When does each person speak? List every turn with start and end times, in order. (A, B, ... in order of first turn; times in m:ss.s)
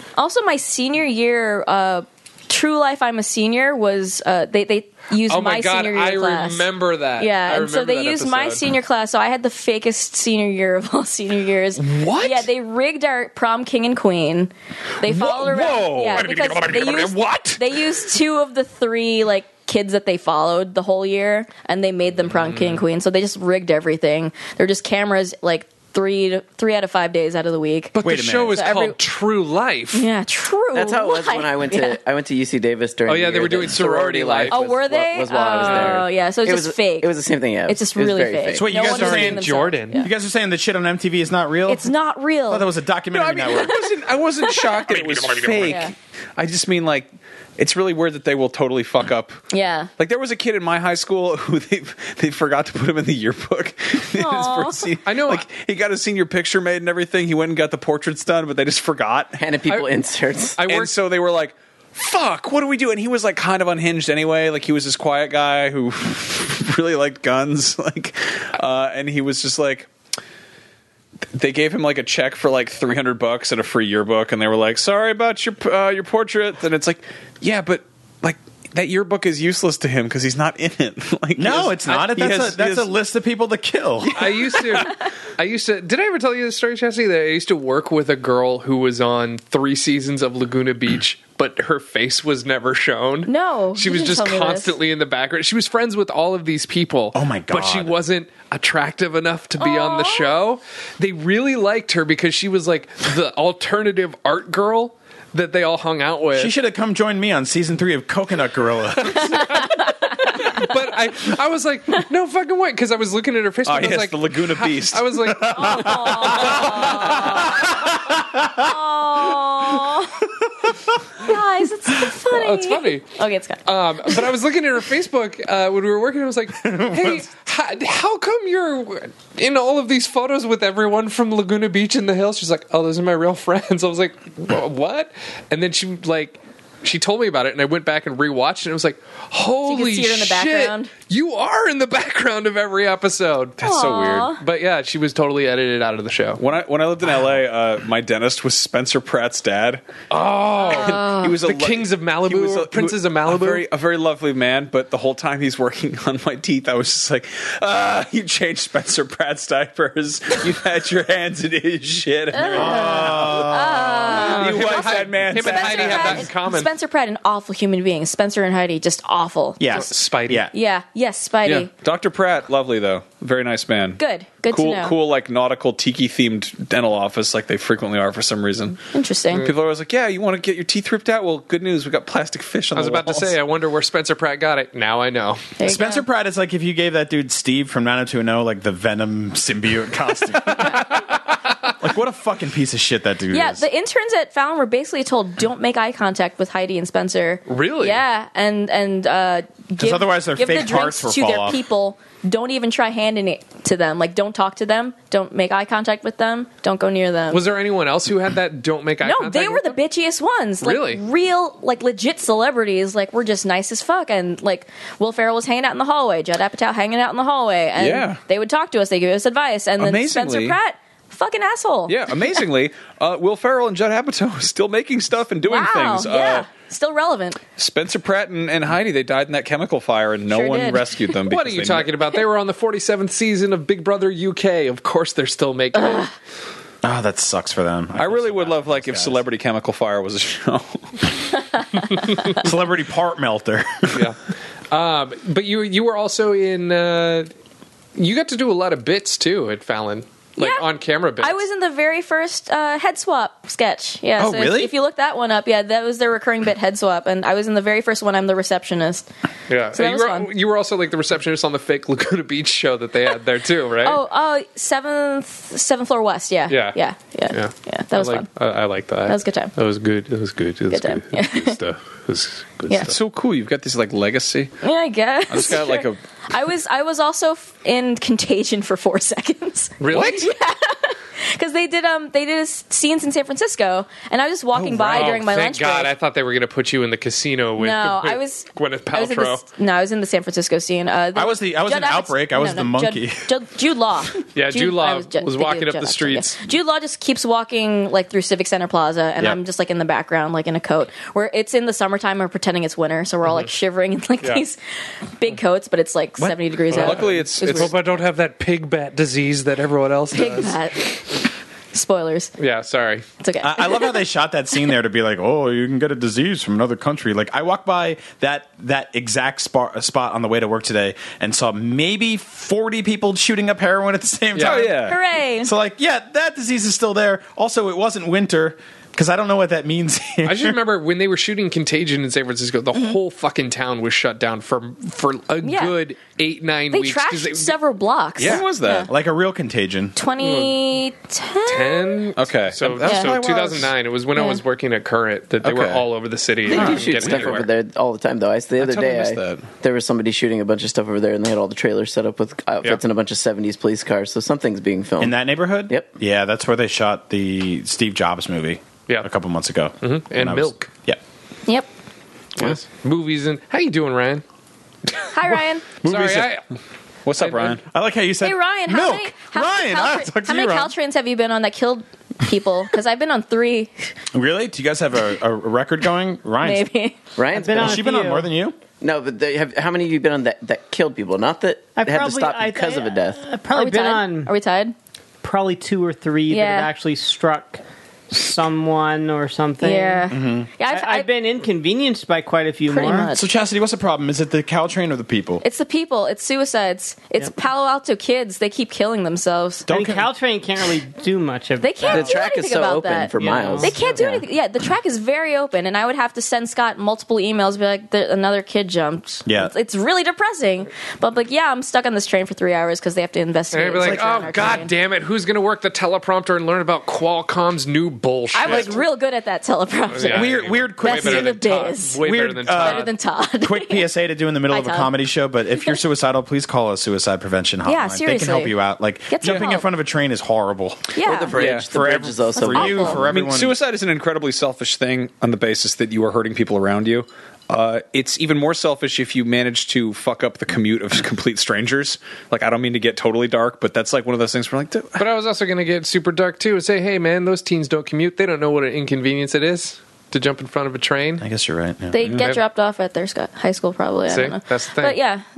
0:00.2-0:06.7 A
0:05.3-0:08.7 B
0:07.2-0:28.0 A
0:11.8-0:12.5 B
0:15.1-0:17.6 C
0:16.8-0:17.2 B
0:22.4-0:22.8 B
0:27.9-0:30.1 B
0:28.0-0:28.6 D
0:28.5-0:29.0 A
0:29.9-0:32.0 A
0:30.7-0:38.7 E
0:33.0-0:34.6 B
0:34.5-0:37.1 A
0:35.6-0:36.0 B
0:37.7-0:40.1 A
0:38.5-0:41.9 D
0:38.8-0:40.0 B
0:41.6-0:42.7 A
0:42.5-0:43.8 D
0:43.1-0:49.4 C
0:44.4-0:44.8 A
0:44.9-0:45.8 B
0:45.6-0:45.9 A
0:49.5-0:49.9 A
0:50.0-0:59.4 C
0:54.1-0:54.9 A
0:55.0-0:55.4 B
0:59.4-1:00.6 E
0:59.7-0:59.9 B
1:00.5-1:00.9 B
1:00.6-1:09.9 C
1:11.3-1:22.9 C
1:21.4-1:24.4 D
1:24.1-1:24.9 C
1:24.1-1:46.5 B
1:33.2-1:34.8 A
1:37.1-1:38.0 D
1:39.6-1:40.3 A
1:46.3-1:49.6 D
1:49.1-1:49.7 B
1:49.4-1:50.6 A
1:50.4-1:57.5 B
1:53.6-1:55.6 C
1:55.5-1:58.0 A
1:55.6-1:56.1 D
1:57.2-1:58.6 D
1:58.5-2:00.2 A
2:01.2-2:04.3 A
2:02.3-2:03.1 B
2:03.6-2:23.6 B
2:06.6-2:07.2 D
2:19.6-2:20.9 A
2:23.6-2:24.3 C
2:23.6-2:24.4 A
2:24.4-2:26.4 B
2:26.4-2:29.8 C
2:30.1-2:33.6 B
2:30.6-2:31.3 A
2:30.7-2:43.5 C
2:42.3-2:49.8 A
2:42.6-2:44.1 D
2:44.1-2:46.3 C
2:44.1-2:46.7 B
2:49.6-2:50.5 D
2:49.7-2:50.5 B
2:50.5-2:51.7 A
2:51.4-2:58.8 C
2:54.0-2:55.0 A
2:58.9-2:59.5 A
2:59.4-3:03.4 C
3:02.7-3:05.5 B
3:05.6-3:06.0 A
3:05.6-3:11.0 D
3:11.8-3:13.6 D
3:13.3-3:27.4 A
3:17.5-3:18.0 B
3:19.8-3:21.6 D
3:27.3-3:29.8 B
3:29.0-3:42.4 A
3:30.6-3:31.0 B
3:37.8-3:38.2 C
3:39.8-3:40.6 C
3:41.9-3:46.5 C
3:45.4-3:47.4 A
3:47.6-3:51.9 C
3:50.3-3:51.1 A
3:51.3-3:56.1 B
3:55.8-3:56.1 A
3:56.8-3:59.2 D
3:58.0-4:01.1 C
4:02.3-4:04.1 D
4:03.9-4:04.2 B
4:04.7-4:07.3 B
4:08.0-4:11.4 B
4:10.4-4:10.7 A
4:11.2-4:19.1 A
4:14.2-4:14.7 D
4:19.5-4:24.0 B
4:19.7-4:20.3 A
4:23.8-4:28.3 A
4:26.5-4:26.8 B
4:27.3-4:32.9 B
4:29.0-4:29.5 A
4:30.7-4:31.6 A
4:32.7-4:32.9 A
4:32.8-4:34.5 C
4:34.6-4:45.9 A
4:35.3-4:36.0 C
4:39.8-4:40.3 B
4:44.5-4:45.2 D
4:44.9-4:49.4 B
4:47.6-5:04.6 A
4:51.1-4:53.3 D
4:54.3-4:56.4 B
5:05.2-5:07.7 A
5:06.7-5:10.6 B
5:06.7-5:07.7 C
5:10.1-5:11.2 A
5:11.7-5:12.3 A
5:12.4-5:13.0 B
5:13.2-5:14.0 A
5:13.4-5:24.8 D
5:24.3-5:24.7 B
5:24.4-5:25.0 C
5:24.6-5:25.5 A
5:25.4-5:30.6 D
5:30.2-5:37.6 B
5:35.4-5:35.8 A
5:36.7-5:38.9 A
5:38.2-5:38.9 C
5:38.9-5:40.0 D
5:40.0-5:42.1 A
5:40.2-5:40.6 B
5:41.4-5:47.5 B
5:42.2-5:43.7 C
5:42.8-5:43.1 A
5:44.2-5:44.4 A
5:45.4-5:45.8 C
5:46.5-5:55.9 E
5:46.6-5:47.4 C
5:48.6-5:49.5 C
5:55.0-6:01.0 D
5:59.8-6:00.7 B
6:02.4-6:04.2 B
6:05.1-6:05.7 A
6:05.8-6:06.4 B
6:05.8-6:06.3 C
6:07.0-6:07.6 C
6:07.2-6:07.6 B
6:07.7-6:10.7 D
6:08.2-6:13.9 A
6:14.1-6:16.7 D
6:16.4-6:17.0 A
6:17.2-6:17.9 E
6:17.3-6:18.3 F
6:17.5-6:18.6 D
6:18.8-6:23.2 E
6:21.8-6:24.3 F
6:23.5-6:24.7 A
6:25.2-6:30.1 F
6:26.3-6:26.7 A
6:29.6-6:31.1 A
6:30.1-6:30.5 D
6:30.7-6:33.1 F
6:32.7-6:33.2 A
6:33.1-6:35.4 D
6:35.4-6:39.7 A
6:39.7-6:40.1 D
6:39.7-6:42.3 F
6:41.6-6:54.7 A
6:41.9-6:44.2 E
6:43.2-6:44.2 F
6:49.2-6:49.5 D
6:53.5-6:58.8 B
6:58.3-7:03.9 A
6:59.9-7:02.9 B
7:00.1-7:10.9 D
7:04.5-7:04.9 A
7:07.6-7:08.5 A
7:09.1-7:09.7 A
7:10.9-7:11.4 A
7:11.0-7:13.0 E
7:11.3-7:25.0 C
7:12.4-7:13.0 A
7:12.4-7:13.6 D
7:25.0-7:31.2 B
7:31.2-7:32.0 D
7:31.9-7:35.2 A
7:34.1-7:35.0 B